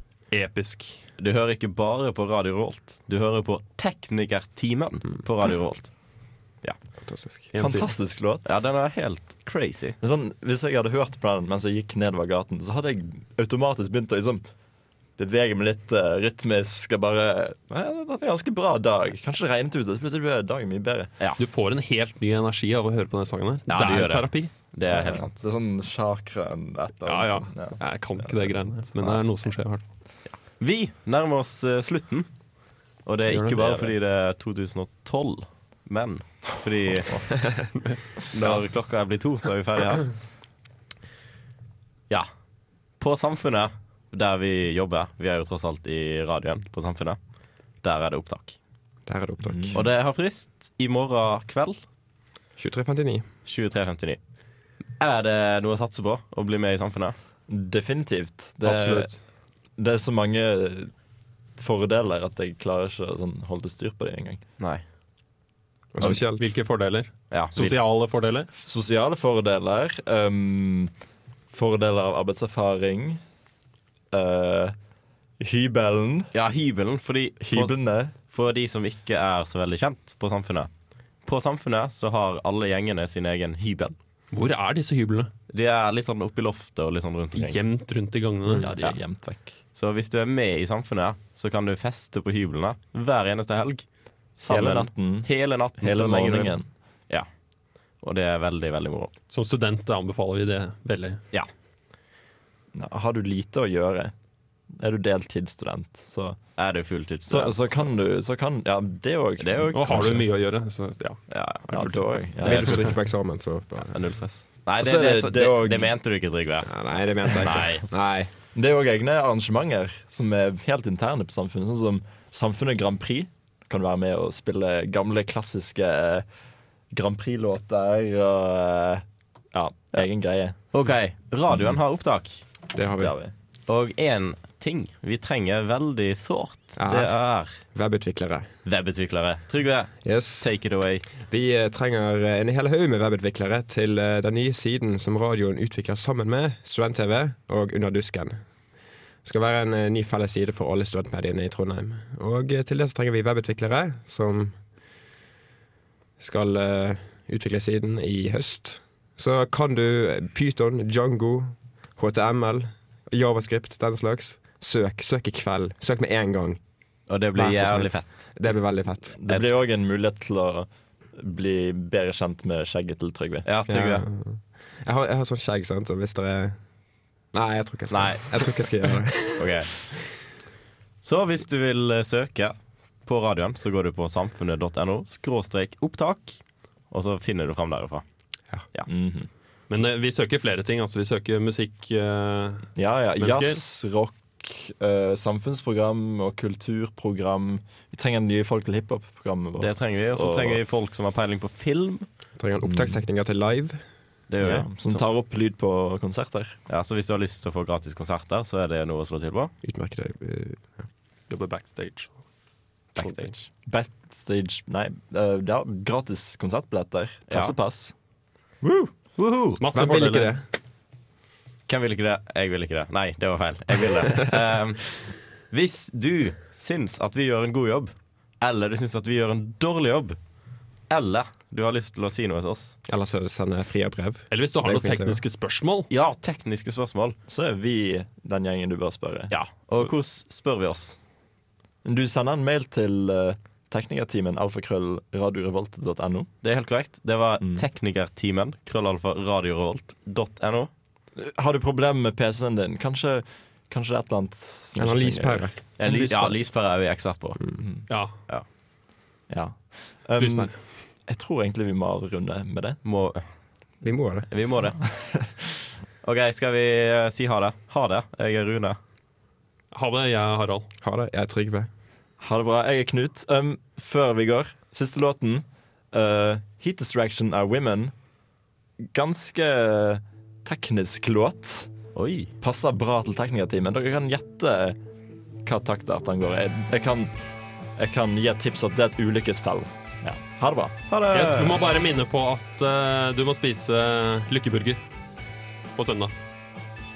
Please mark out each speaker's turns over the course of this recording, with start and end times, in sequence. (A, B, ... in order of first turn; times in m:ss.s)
0:00.3-0:01.0 A
0:01.2-0:05.9 B
0:07.0-0:07.5 C
0:07.5-0:07.9 A
0:07.6-0:08.5 D
0:08.4-0:10.0 B
0:10.0-0:14.4 D
0:15.2-0:21.1 D
0:21.4-0:24.5 A
0:23.7-0:25.3 B
0:24.9-0:29.2 D
0:27.0-0:29.8 A
0:30.3-0:32.3 B
0:33.0-0:37.6 B
0:33.3-0:33.8 A
0:37.4-0:37.7 D
0:38.3-0:40.2 B
0:43.0-0:47.2 B
0:47.8-0:48.6 B
0:49.1-0:49.8 C
0:49.4-0:49.8 D
0:49.7-0:51.8 B
0:52.6-0:53.3 C
0:53.5-0:54.2 B
0:55.0-0:57.2 B
0:57.5-0:59.2 D
0:58.6-0:59.2 A
0:59.8-1:00.9 D
1:01.6-1:04.4 D
1:05.9-1:06.5 C
1:06.0-1:08.5 A
1:07.3-1:07.8 B
1:08.5-1:10.9 D
1:11.5-1:13.2 D
1:14.1-1:14.8 D
1:15.4-1:16.3 D
1:16.3-1:17.8 B
1:17.4-1:18.1 D
1:18.3-1:20.7 B
1:21.2-1:24.0 B
1:24.3-1:25.3 A
1:25.5-1:27.6 B
1:27.4-1:28.6 A
1:28.5-1:28.8 C
1:28.6-1:29.5 D
1:29.8-1:33.8 B
1:34.4-1:36.6 B
1:34.5-1:36.7 D
1:38.0-1:39.1 B
1:39.3-1:41.2 A
1:42.7-1:44.1 D
1:44.8-1:46.4 D
1:46.6-1:47.9 B
1:47.3-1:50.1 D
1:49.4-1:50.2 B
1:49.7-1:52.1 A
1:51.3-1:51.6 B
1:51.7-1:52.9 D
1:52.4-1:54.0 C
1:53.9-1:56.7 B
1:54.8-1:56.0 D
1:56.6-1:58.3 C
1:57.2-1:57.8 B
1:58.5-2:06.2 D
2:06.9-2:10.6 D
2:10.7-2:12.4 B
2:11.5-2:11.8 D
2:12.8-2:13.2 C
2:13.0-2:13.3 D
2:13.7-2:17.6 B
2:16.8-2:18.5 C
2:18.6-2:21.0 B
2:20.0-2:20.6 C
2:21.2-2:28.4 C
2:29.2-2:34.6 C
2:36.2-2:46.6 C
2:47.1-2:48.3 B
2:47.3-2:49.2 C
2:49.2-2:53.4 D
2:53.4-2:54.0 B
2:53.7-2:56.6 C
2:57.3-2:59.7 C
2:57.9-2:58.5 B
2:59.4-2:59.7 B
3:01.0-3:06.4 B
3:06.9-3:08.0 B
3:08.9-3:09.3 D
3:09.7-3:13.6 A
3:12.8-3:20.6 D
3:19.6-3:22.1 B
3:22.4-3:23.8 C
3:22.6-3:23.0 D
3:24.3-3:25.0 B
3:24.4-3:26.6 D
3:26.7-3:29.5 B
3:29.6-3:30.9 C
3:31.3-3:32.2 A
3:33.0-3:33.3 A
3:33.0-3:33.5 B
3:33.6-3:37.9 D
3:37.3-3:37.6 B
3:39.2-3:39.6 B
3:39.6-3:40.3 A
3:39.7-3:40.4 C
3:41.7-3:50.2 B
3:50.9-3:52.8 B
3:52.9-3:55.2 C
3:54.3-3:55.9 A
3:55.9-3:57.2 B
3:57.3-3:59.9 D
3:59.3-4:01.0 B
4:01.8-4:06.3 D
4:06.4-4:10.7 B
4:11.2-4:16.4 D
4:14.8-4:15.6 C
4:15.8-4:17.4 B
4:17.6-4:17.9 D
4:17.9-4:18.2 A
4:19.3-4:22.8 D
4:20.2-4:20.5 A
4:22.8-4:23.2 B
4:23.8-4:24.3 C
4:24.3-4:24.8 B
4:25.0-4:25.3 D
4:26.0-4:28.8 B
4:29.7-4:30.7 A
4:30.8-4:31.7 C
4:32.2-4:37.9 D
4:38.9-4:41.7 D
4:42.0-4:42.3 B
4:42.4-4:44.8 D
4:45.4-4:47.2 D
4:47.8-4:50.8 D
4:50.9-4:51.6 B
4:51.1-4:54.8 A
4:55.8-4:56.1 A